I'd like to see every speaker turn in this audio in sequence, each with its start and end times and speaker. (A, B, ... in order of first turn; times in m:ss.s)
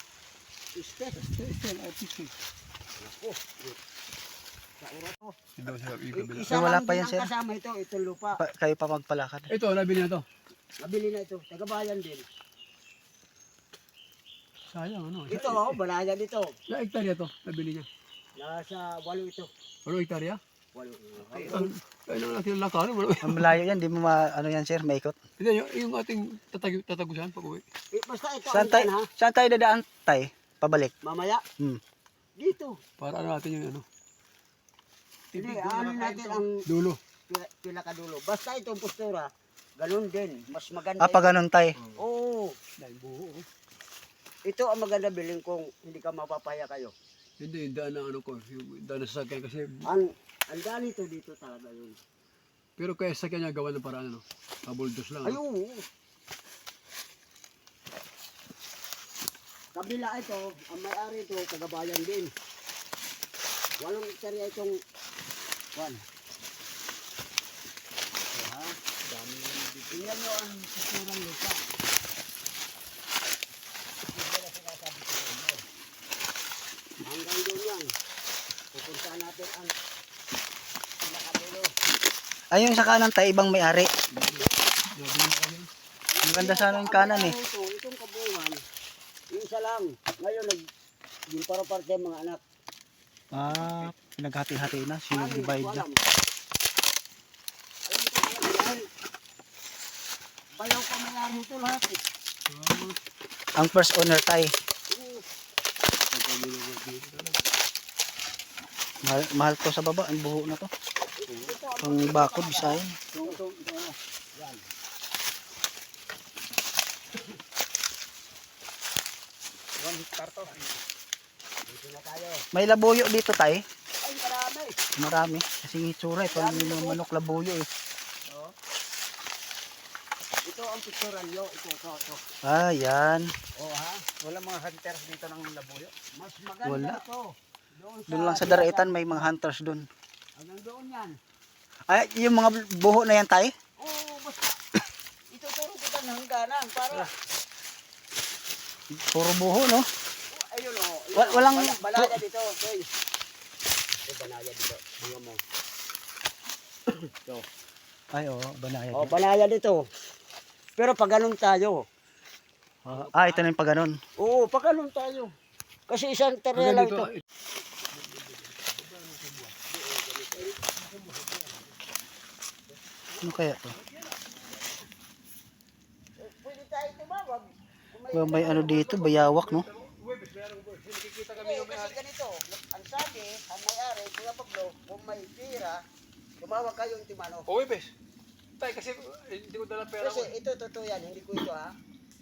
0:00.8-0:01.2 A
0:01.2-0:02.3 B
0:03.0-0:03.8 A
0:04.8-0:05.3 A
0:05.6-0:06.5 B
0:06.1-0:08.4 A
0:06.5-0:07.3 C
0:08.4-0:09.5 C
0:09.5-0:10.2 B
0:10.8-0:12.2 A
0:14.7-0:15.8 B
0:15.3-0:16.5 A
0:16.7-0:17.9 B
0:18.4-0:19.5 A
0:19.8-0:20.4 B
0:20.7-0:21.7 A
0:21.2-0:23.5 B
0:23.2-0:25.2 C
0:25.4-0:27.6 B
0:27.9-0:29.1 A
0:28.5-0:30.9 C
0:31.0-0:31.4 A
0:32.4-0:32.7 A
0:33.0-0:33.8 B
0:35.3-0:37.0 B
0:35.3-0:36.5 A
0:37.3-0:39.3 A
0:39.8-0:41.4 A
0:41.0-0:41.8 C
0:42.0-0:42.5 A
0:42.8-0:43.4 B
0:44.5-0:46.9 A
0:47.4-0:49.8 B
0:49.9-0:52.0 A
0:52.8-0:55.4 B
0:55.2-0:55.8 A
0:59.8-1:02.3 A
1:03.8-1:04.7 A
1:05.8-1:06.0 A
1:08.3-1:08.7 A
1:09.1-1:09.9 B
1:09.2-1:10.1 D
1:09.9-1:11.6 A
1:14.1-1:15.6 A
1:17.0-1:17.9 A
1:18.7-1:19.7 A
1:21.0-1:21.7 A
1:22.5-1:23.9 C
1:24.1-1:25.7 B
1:26.1-1:28.6 A
1:26.2-1:27.3 C
1:29.3-1:30.6 A
1:31.3-1:32.4 A
1:33.3-1:35.8 C
1:35.1-1:36.0 A
1:37.9-1:38.8 A
1:40.6-1:42.0 A
1:42.5-1:43.0 B
1:43.6-1:44.5 C
1:44.9-1:45.2 A
1:46.1-1:47.4 B
1:49.0-1:50.7 C
1:51.3-1:53.4 A
1:51.8-1:53.0 C
1:53.1-1:54.0 B
1:54.4-1:54.6 A
1:59.8-2:00.8 D
2:01.7-2:02.4 A
2:02.5-2:03.6 C
2:04.0-2:04.8 A
2:05.0-2:07.7 C
2:06.3-2:07.0 A
2:08.3-2:08.5 D
2:10.4-2:12.2 A
2:12.4-2:13.3 C
2:13.6-2:14.0 A
2:14.2-2:15.9 D
2:16.2-2:17.2 A
2:16.6-2:17.0 C
2:17.8-2:19.3 A
2:18.1-2:19.9 C
2:20.4-2:21.2 A
2:21.9-2:23.5 C
2:23.8-2:24.6 A
2:25.3-2:27.1 A
2:29.0-2:29.8 C
2:30.3-2:32.8 A
2:31.2-2:32.2 C
2:34.0-2:35.4 A
2:38.1-2:39.1 C
2:38.9-2:39.8 A
2:40.8-2:41.8 A
2:42.8-2:44.0 C
2:42.9-2:43.5 A
2:44.2-2:45.3 A
2:45.9-2:47.1 A
2:46.5-2:47.2 B
2:47.9-2:49.6 B
2:49.7-2:50.6 A
2:50.7-2:51.7 B
2:53.2-2:54.2 B
2:53.2-2:53.8 C
2:56.2-2:58.8 A
2:58.1-2:59.7 C
2:58.3-3:02.0 B
3:01.3-3:05.8 A
3:06.4-3:07.5 A
3:07.5-3:07.9 B
3:08.6-3:10.3 B
3:10.0-3:11.7 A